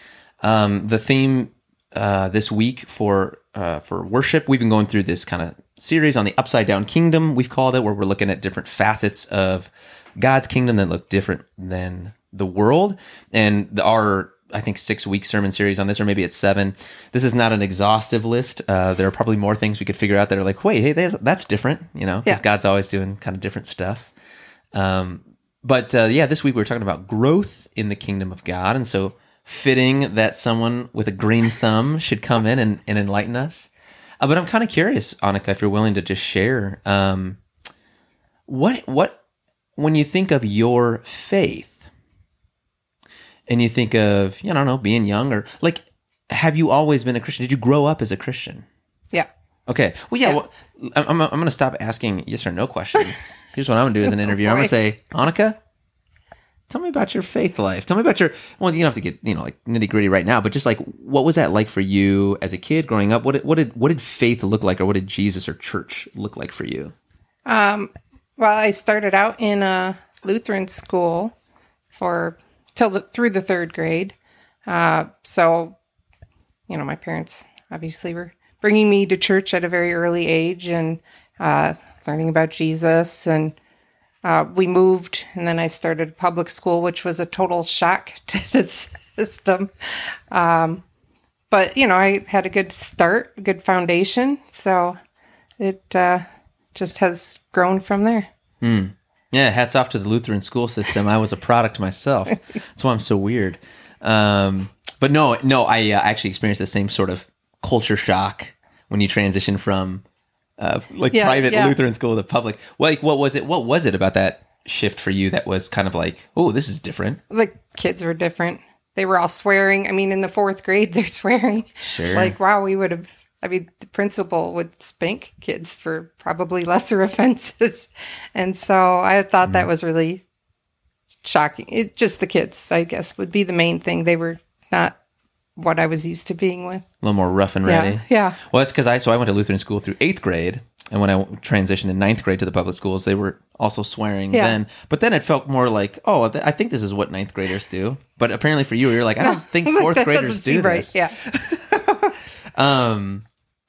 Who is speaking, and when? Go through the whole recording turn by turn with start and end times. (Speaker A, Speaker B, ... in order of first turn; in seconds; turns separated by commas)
Speaker A: 0.4-24.1, Speaker A: 24.7-37.4, Speaker A: 38.5-39.2, Speaker A: 39.8-41.9, Speaker A: 43.5-48.6, Speaker A: 49.7-55.6, Speaker B: 54.2-54.7, Speaker A: 56.7-66.9, Speaker B: 67.5-71.3, Speaker B: 71.9-74.2, Speaker B: 74.7-75.8, Speaker B: 76.7-83.6, Speaker B: 84.2-90.8, Speaker B: 91.5-95.0, Speaker B: 95.6-98.3, Speaker A: 98.6-110.0, Speaker A: 110.6-117.2, Speaker B: 111.1-111.8, Speaker B: 117.3-130.2, Speaker A: 121.8-122.3, Speaker B: 131.2-135.0, Speaker B: 135.6-136.9, Speaker A: 137.0-153.2, Speaker B: 137.7-138.4, Speaker B: 144.3-144.6, Speaker B: 149.2-151.2